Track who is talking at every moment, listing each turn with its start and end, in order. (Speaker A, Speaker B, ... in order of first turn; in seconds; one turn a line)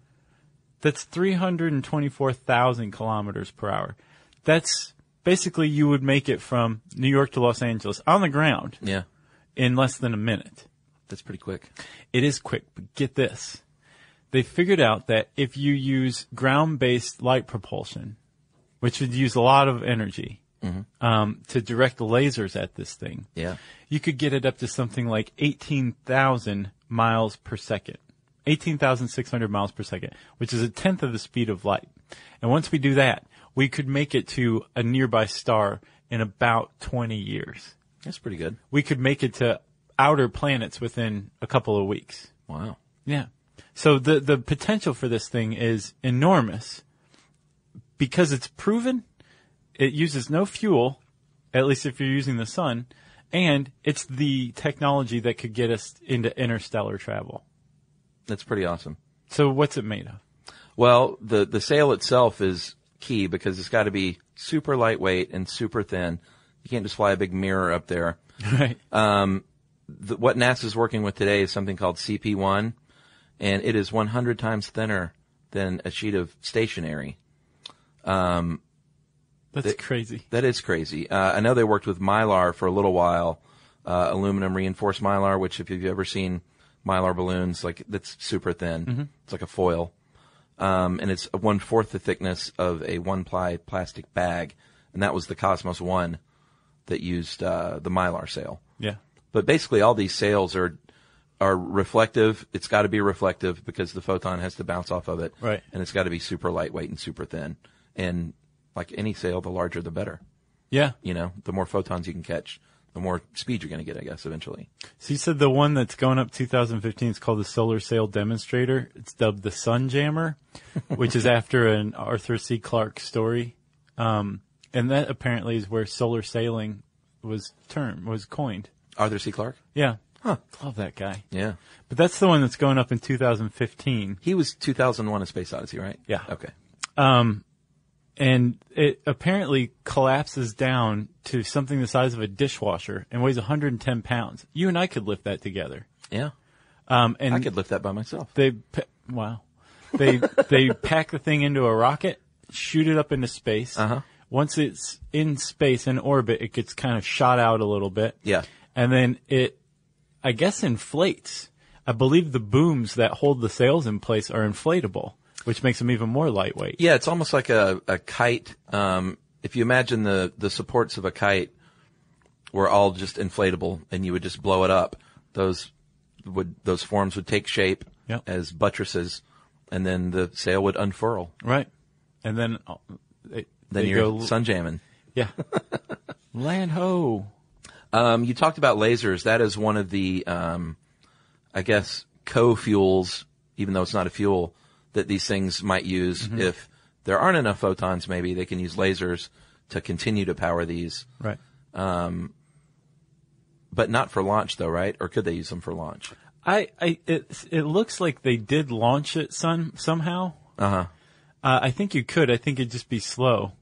Speaker A: 0.8-8.8
Speaker A: 9.6-10.7
Speaker B: 11.1-11.7
Speaker A: 12.1-13.6
Speaker A: 14.3-18.2
Speaker A: 18.8-20.4
Speaker A: 21.0-23.3
Speaker A: 23.9-31.9
Speaker A: 32.4-37.7
Speaker B: 38.0-38.6
Speaker A: 38.7-42.3
Speaker B: 42.5-42.8
Speaker A: 43.1-46.8
Speaker A: 48.0-49.0
Speaker A: 49.8-51.0
Speaker A: 51.5-57.4
Speaker B: 58.3-59.0
Speaker A: 59.3-60.2
Speaker B: 60.8-68.2
Speaker A: 68.4-68.8
Speaker B: 68.9-72.7
Speaker B: 73.4-77.2
Speaker B: 78.0-78.6
Speaker A: 79.5-80.2
Speaker B: 80.3-89.9
Speaker B: 90.6-96.2
Speaker B: 96.9-98.6
Speaker B: 99.3-100.8
Speaker B: 101.4-110.2
Speaker A: 110.7-111.0
Speaker B: 111.0-114.7
Speaker A: 115.0-120.4
Speaker A: 120.9-128.7
Speaker B: 129.0-129.6
Speaker A: 129.7-130.0
Speaker A: 130.5-131.2
Speaker B: 131.3-131.6
Speaker A: 131.9-134.2
Speaker B: 134.2-136.5
Speaker A: 137.0-137.4
Speaker A: 138.2-145.9
Speaker A: 146.9-147.5
Speaker B: 147.3-148.3
Speaker A: 148.3-158.2
Speaker B: 153.8-154.0
Speaker A: 158.8-159.6
Speaker A: 160.2-166.8
Speaker B: 166.8-171.5
Speaker B: 172.5-175.7
Speaker B: 176.2-181.3
Speaker A: 181.4-181.7
Speaker A: 182.2-184.3
Speaker B: 183.7-184.8
Speaker A: 186.3-187.3
Speaker B: 187.9-190.8
Speaker B: 191.5-201.1
Speaker A: 196.2-196.5
Speaker B: 201.7-202.3
Speaker B: 203.7-206.1
Speaker A: 206.4-210.4
Speaker B: 210.6-210.9
Speaker A: 211.4-213.5